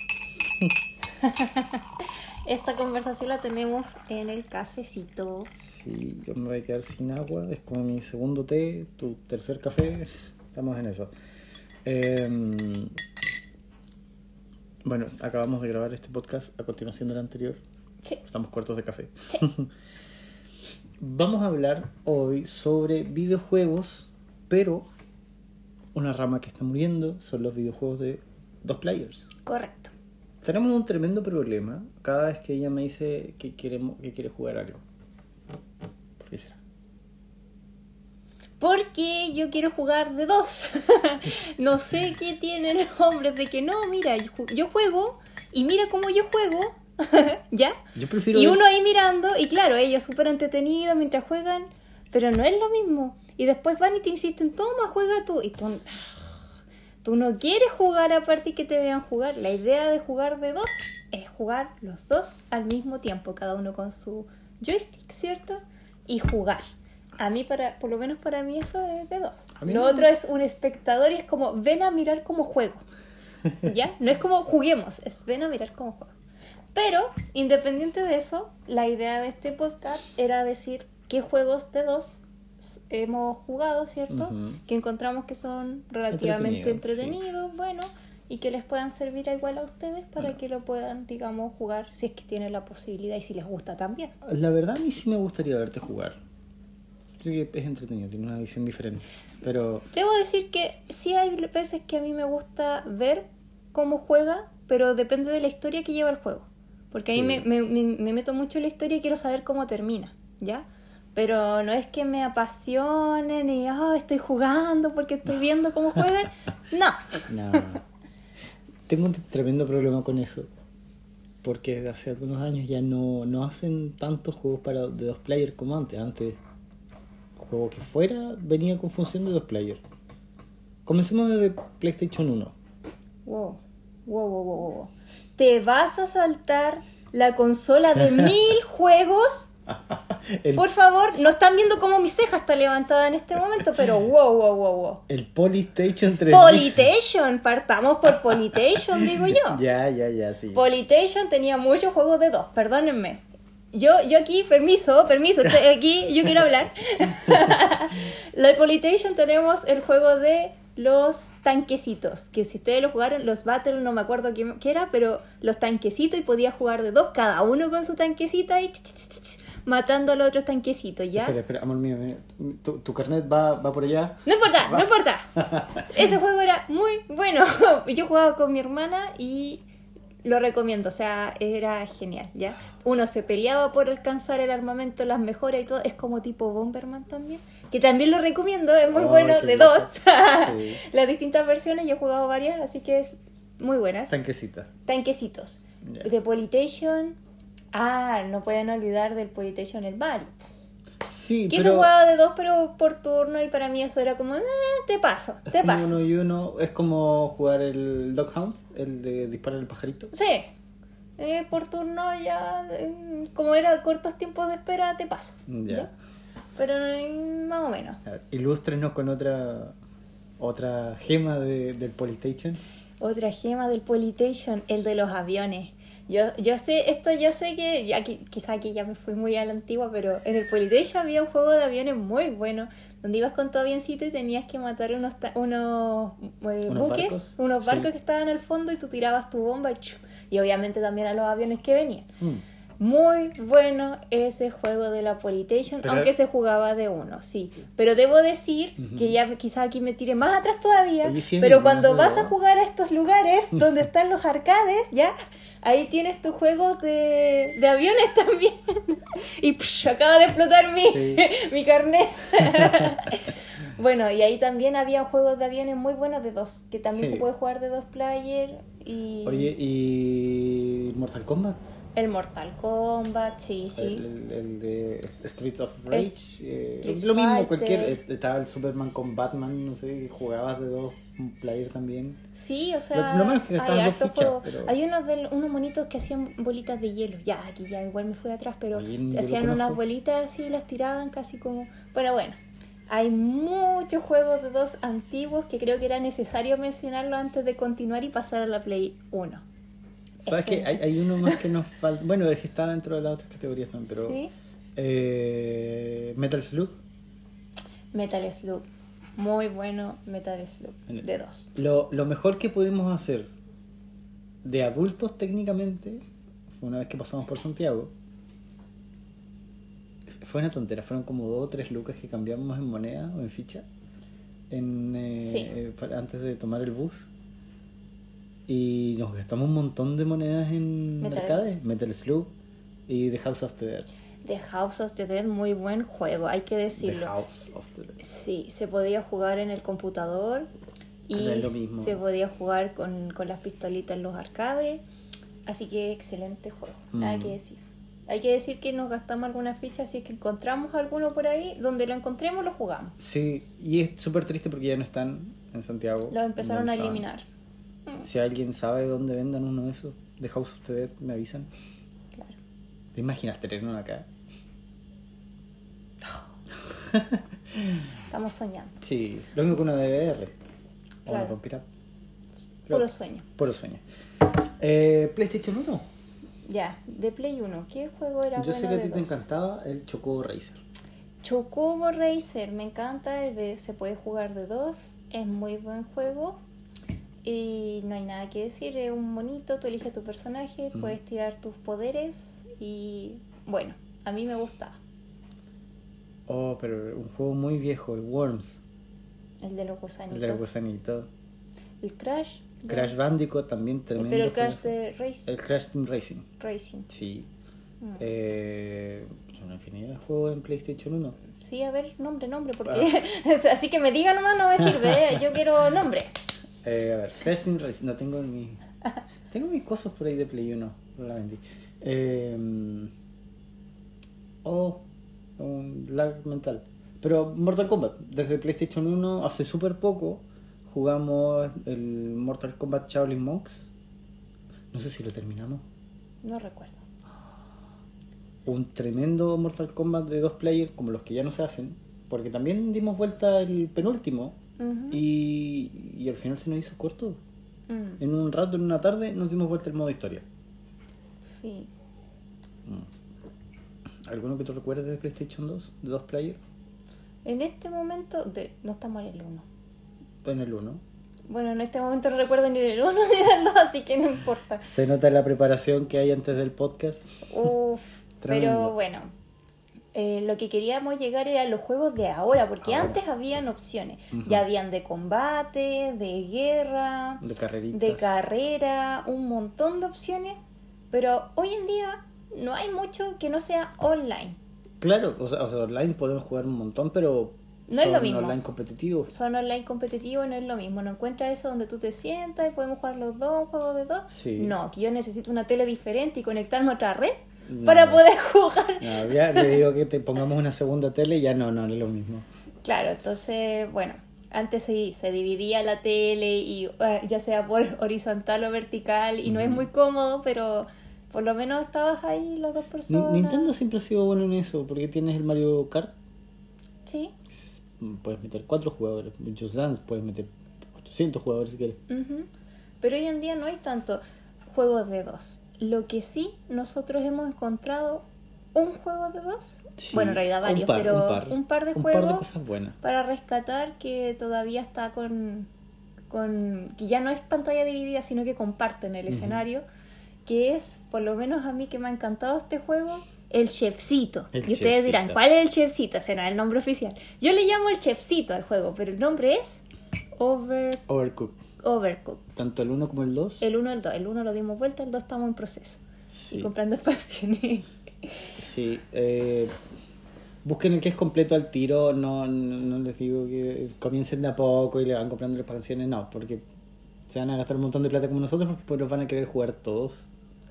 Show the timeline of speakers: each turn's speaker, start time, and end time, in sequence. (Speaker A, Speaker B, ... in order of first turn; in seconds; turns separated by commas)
Speaker A: 1.2-5.5, Speaker B: 5.6-11.1, Speaker B: 11.8-12.9, Speaker B: 14.8-17.6, Speaker B: 18.2-19.7, Speaker B: 21.0-24.9, Speaker B: 25.9-29.2, Speaker A: 29.5-29.9, Speaker B: 30.4-34.8, Speaker B: 36.2-36.6, Speaker A: 38.6-47.8, Speaker B: 48.0-48.6, Speaker A: 48.3-56.4, Speaker A: 57.0-66.6, Speaker A: 67.2-72.8, Speaker B: 69.6-70.1, Speaker A: 73.6-76.1, Speaker A: 76.7-94.1, Speaker B: 84.1-84.6, Speaker B: 86.1-87.2, Speaker B: 94.2-96.2, Speaker B: 97.2-99.9, Speaker A: 99.9-117.6, Speaker B: 107.1-107.5, Speaker B: 117.3-117.8, Speaker B: 118.9-120.5, Speaker B: 121.4-126.4, Speaker B: 127.4-129.8, Speaker B: 130.9-132.6, Speaker A: 133.2-139.5, Speaker B: 139.9-140.7, Speaker A: 140.6-145.0, Speaker B: 145.1-146.8, Speaker A: 146.3-149.6, Speaker B: 149.3-150.7, Speaker A: 150.5-171.3, Speaker B: 171.2-175.9, Speaker A: 174.3-175.3, Speaker A: 175.9-179.6, Speaker A: 180.2-194.1, Speaker B: 188.9-190.8, Speaker B: 194.1-194.7, Speaker A: 194.9-197.2, Speaker A: 197.7-200.3, Speaker B: 201.1-201.9, Speaker A: 201.5-206.0, Speaker B: 205.5-210.1, Speaker A: 210.1-210.5, Speaker A: 211.2-215.9, Speaker B: 215.5-215.9, Speaker A: 216.6-218.0, Speaker B: 218.1-219.8, Speaker B: 220.4-222.6, Speaker A: 223.0-242.1, Speaker B: 236.7-237.9, Speaker A: 242.8-269.5, Speaker B: 245.8-246.1, Speaker B: 248.8-249.2, Speaker B: 251.0-252.3, Speaker B: 260.9-261.2, Speaker B: 266.9-267.2, Speaker B: 269.2-271.6, Speaker A: 271.9-274.1, Speaker B: 273.8-282.2, Speaker A: 276.8-278.0, Speaker A: 282.4-299.4, Speaker B: 282.9-284.8, Speaker B: 288.7-289.8, Speaker A: 300.2-301.5, Speaker B: 300.2-304.2, Speaker A: 303.9-304.3, Speaker B: 304.8-306.8, Speaker A: 307.9-311.5, Speaker B: 310.9-313.3, Speaker B: 314.4-316.0, Speaker B: 316.6-317.9, Speaker B: 320.2-323.6, Speaker B: 324.5-327.1, Speaker A: 325.2-325.5, Speaker B: 328.5-332.3, Speaker A: 331.0-331.5, Speaker B: 332.9-333.9, Speaker A: 334.2-337.1, Speaker B: 336.8-338.0, Speaker A: 338.0-340.5, Speaker A: 341.1-344.8, Speaker B: 341.1-342.0, Speaker A: 345.4-352.9, Speaker B: 346.9-347.4, Speaker B: 353.0-357.1, Speaker A: 356.1-357.2, Speaker B: 358.0-361.5, Speaker A: 362.1-362.4, Speaker B: 362.9-364.1, Speaker B: 366.7-367.9, Speaker A: 368.1-368.8, Speaker B: 368.8-370.3, Speaker B: 371.1-371.6, Speaker A: 371.1-371.4, Speaker A: 372.7-373.2, Speaker B: 372.7-373.8, Speaker B: 374.6-375.9, Speaker A: 376.4-379.2, Speaker B: 378.4-380.6, Speaker A: 381.2-386.4, Speaker A: 387.2-394.8, Speaker B: 390.7-391.0, Speaker B: 396.3-398.6, Speaker A: 399.4-400.4, Speaker B: 400.1-401.1, Speaker A: 401.8-402.9, Speaker B: 402.7-404.7, Speaker A: 403.9-405.3, Speaker B: 405.2-406.3, Speaker A: 406.4-406.9, Speaker B: 406.9-407.3, Speaker B: 408.0-411.2, Speaker A: 411.4-416.1, Speaker B: 416.6-418.6, Speaker B: 419.3-422.9, Speaker B: 424.4-424.8, Speaker B: 425.4-433.7, Speaker B: 434.7-435.6, Speaker A: 436.2-436.8, Speaker B: 438.4-444.4, Speaker A: 444.6-445.0, Speaker B: 444.9-447.2, Speaker A: 447.7-448.0, Speaker B: 448.0-450.2, Speaker A: 451.2-451.7, Speaker B: 454.1-456.4, Speaker A: 457.2-459.4, Speaker B: 460.2-460.8, Speaker A: 461.3-464.6, Speaker B: 464.6-467.2, Speaker A: 467.2-469.1, Speaker B: 468.2-468.8, Speaker A: 469.9-480.4, Speaker B: 472.6-473.0, Speaker B: 474.1-474.4, Speaker B: 477.2-478.1, Speaker A: 480.9-484.4, Speaker B: 484.8-489.1, Speaker A: 487.7-488.4, Speaker A: 489.1-499.6, Speaker B: 494.1-494.6, Speaker B: 497.5-498.0, Speaker B: 498.8-502.2, Speaker A: 502.6-513.5, Speaker B: 509.3-509.6, Speaker B: 512.9-515.9, Speaker A: 516.9-517.1, Speaker B: 517.3-521.8, Speaker A: 521.9-522.3, Speaker A: 522.8-532.3, Speaker B: 529.8-532.8, Speaker A: 532.8-535.5, Speaker A: 536.1-539.6, Speaker B: 539.1-539.4, Speaker A: 540.2-549.6, Speaker B: 544.3-545.2, Speaker A: 550.1-550.8, Speaker B: 550.9-551.4, Speaker A: 551.6-552.2, Speaker B: 552.3-553.4, Speaker A: 553.4-558.3, Speaker B: 556.1-556.5, Speaker B: 558.4-559.5, Speaker B: 560.4-566.4, Speaker B: 567.1-570.1